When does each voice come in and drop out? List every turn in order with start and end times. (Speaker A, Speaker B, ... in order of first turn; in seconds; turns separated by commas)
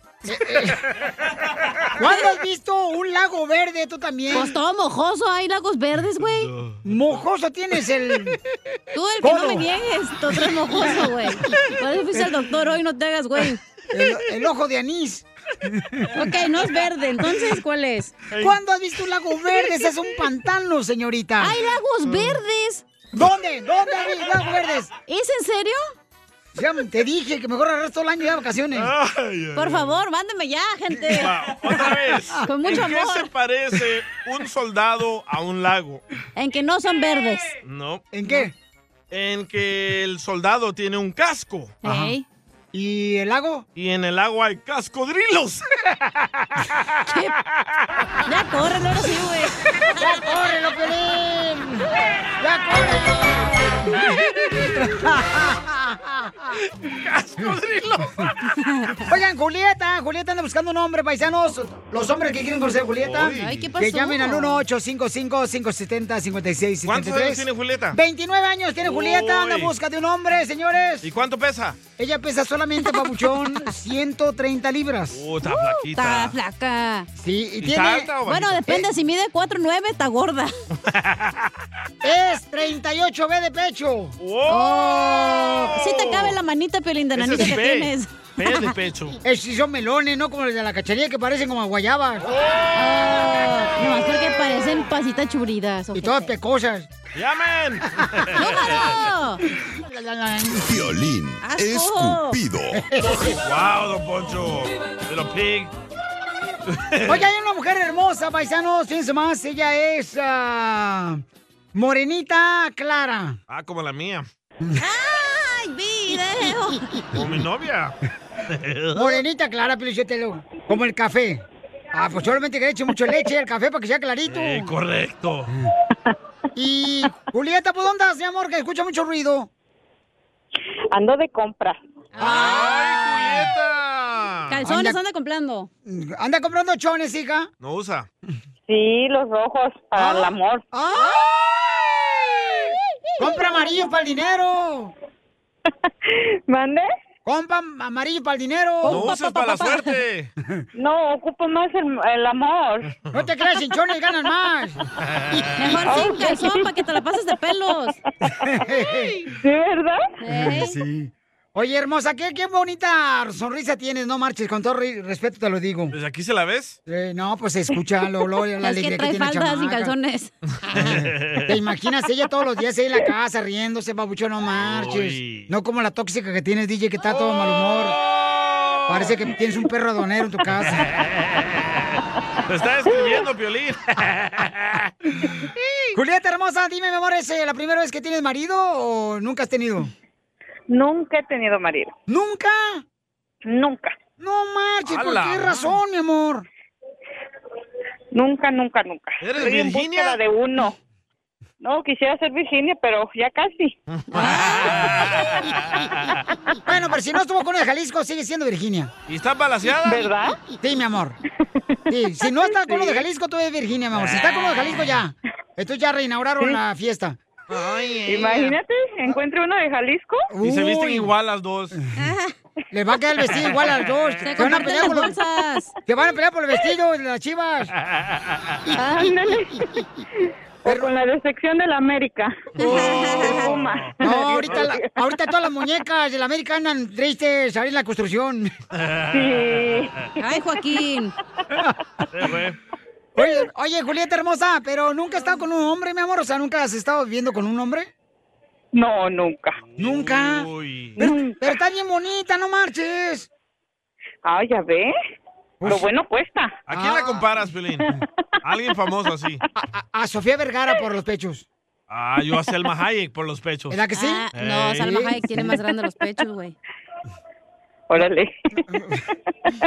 Speaker A: 0.3-0.8, Speaker A: 2.0-4.5, Speaker B: 4.3-6.5, Speaker C: 6.5-6.8, Speaker A: 6.8-8.4, Speaker B: 8.9-13.6, Speaker A: 9.2-9.7, Speaker A: 13.9-16.0, Speaker B: 16.1-18.1, Speaker C: 18.3-18.6, Speaker A: 18.4-21.6, Speaker B: 21.4-22.8, Speaker A: 23.1-24.9, Speaker B: 25.1-25.8, Speaker A: 26.6-28.9, Speaker C: 28.8-29.9, Speaker B: 29.6-31.3, Speaker C: 31.2-36.0, Speaker B: 32.5-33.3, Speaker B: 36.4-37.5, Speaker C: 37.6-38.0, Speaker A: 38.1-38.5, Speaker C: 39.1-41.8, Speaker A: 41.8-42.1, Speaker B: 41.8-42.2, Speaker A: 42.7-43.7, Speaker C: 43.8-46.8, Speaker B: 48.2-50.0, Speaker A: 50.0-51.9, Speaker A: 52.4-54.0, Speaker A: 54.8-56.6, Speaker C: 56.8-58.4, Speaker A: 59.1-71.1, Speaker C: 63.0-63.6, Speaker B: 63.4-64.6, Speaker C: 66.8-68.0, Speaker C: 68.8-69.7, Speaker C: 71.0-71.8, Speaker A: 72.0-75.2, Speaker C: 75.1-76.3, Speaker B: 75.5-77.1, Speaker A: 77.2-78.1, Speaker C: 77.6-78.6, Speaker B: 78.2-80.5, Speaker C: 80.8-81.5, Speaker A: 82.0-84.2, Speaker C: 84.2-86.4, Speaker B: 84.5-88.1, Speaker C: 87.2-89.2, Speaker A: 89.2-92.3, Speaker C: 92.3-92.8, Speaker B: 92.7-96.3, Speaker A: 95.9-96.9, Speaker C: 97.2-98.9, Speaker B: 98.4-99.4, Speaker A: 99.5-100.9, Speaker D: 100.6-102.8, Speaker B: 101.4-102.4, Speaker A: 102.7-103.4, Speaker C: 103.4-105.7, Speaker C: 106.7-107.2, Speaker A: 107.1-111.2, Speaker A: 111.7-113.4, Speaker C: 113.5-114.2, Speaker B: 114.8-117.0, Speaker C: 117.1-117.9, Speaker C: 118.5-119.2, Speaker A: 118.9-121.4, Speaker A: 121.9-124.7, Speaker C: 124.3-125.5, Speaker A: 126.5-129.5, Speaker E: 130.9-131.8, Speaker B: 132.2-132.8, Speaker A: 132.2-133.3, Speaker C: 132.2-134.6, Speaker B: 134.5-135.7, Speaker A: 134.6-135.0, Speaker A: 135.8-137.5, Speaker C: 137.6-138.1, Speaker E: 138.7-140.6, Speaker A: 140.0-142.5, Speaker B: 141.0-141.2, Speaker B: 143.1-143.4, Speaker A: 143.2-144.9, Speaker E: 146.1-146.9, Speaker A: 147.2-149.1, Speaker B: 148.8-149.9, Speaker C: 148.9-150.3, Speaker E: 150.8-152.9, Speaker A: 153.1-154.8, Speaker C: 155.1-155.4, Speaker B: 155.6-158.0, Speaker E: 155.8-156.7, Speaker A: 158.4-159.2, Speaker E: 159.3-160.1, Speaker B: 160.2-160.8, Speaker A: 160.3-166.0, Speaker C: 165.9-166.8, Speaker A: 166.9-169.9, Speaker B: 168.6-170.3, Speaker C: 170.7-171.5, Speaker A: 170.8-178.0, Speaker C: 174.6-175.5, Speaker C: 177.2-179.1, Speaker A: 178.9-180.9, Speaker C: 180.7-181.9, Speaker C: 182.5-184.9, Speaker A: 185.9-189.9, Speaker E: 190.7-191.9, Speaker A: 192.1-192.8, Speaker E: 193.4-194.0, Speaker A: 194.2-196.5, Speaker C: 194.9-195.7, Speaker E: 198.1-200.8, Speaker C: 199.2-200.2, Speaker E: 201.6-203.7, Speaker C: 203.9-206.2, Speaker B: 204.1-204.8, Speaker A: 206.7-208.9, Speaker C: 209.1-210.1, Speaker E: 209.8-210.4, Speaker A: 210.6-211.2, Speaker A: 211.9-217.2, Speaker E: 212.5-213.0, Speaker C: 217.5-218.6, Speaker E: 218.1-220.3, Speaker A: 220.3-221.1, Speaker C: 220.4-221.8, Speaker B: 222.0-222.3, Speaker A: 222.7-225.2, Speaker B: 224.2-225.7, Speaker A: 225.9-227.7, Speaker C: 228.0-228.6, Speaker E: 228.7-229.8, Speaker A: 230.7-230.9, Speaker E: 230.7-235.1, Speaker C: 232.6-233.9, Speaker B: 232.6-233.6, Speaker A: 234.0-238.5, Speaker C: 238.8-240.1, Speaker E: 239.1-239.9, Speaker B: 240.2-241.1, Speaker C: 242.1-242.6, Speaker A: 243.2-247.9, Speaker E: 248.7-249.6, Speaker C: 249.7-251.0, Speaker A: 249.8-250.5, Speaker E: 251.0-251.4, Speaker A: 251.0-253.3, Speaker E: 254.2-254.9, Speaker A: 255.6-255.9, Speaker E: 255.7-256.6, Speaker C: 256.7-257.9, Speaker A: 256.7-257.2, Speaker C: 258.4-259.4, Speaker A: 259.6-261.5, Speaker C: 261.9-263.8, Speaker A: 263.7-264.3, Speaker B: 263.9-266.6, Speaker C: 264.4-265.1, Speaker A: 264.8-265.6, Speaker E: 267.9-268.3, Speaker A: 268.7-269.0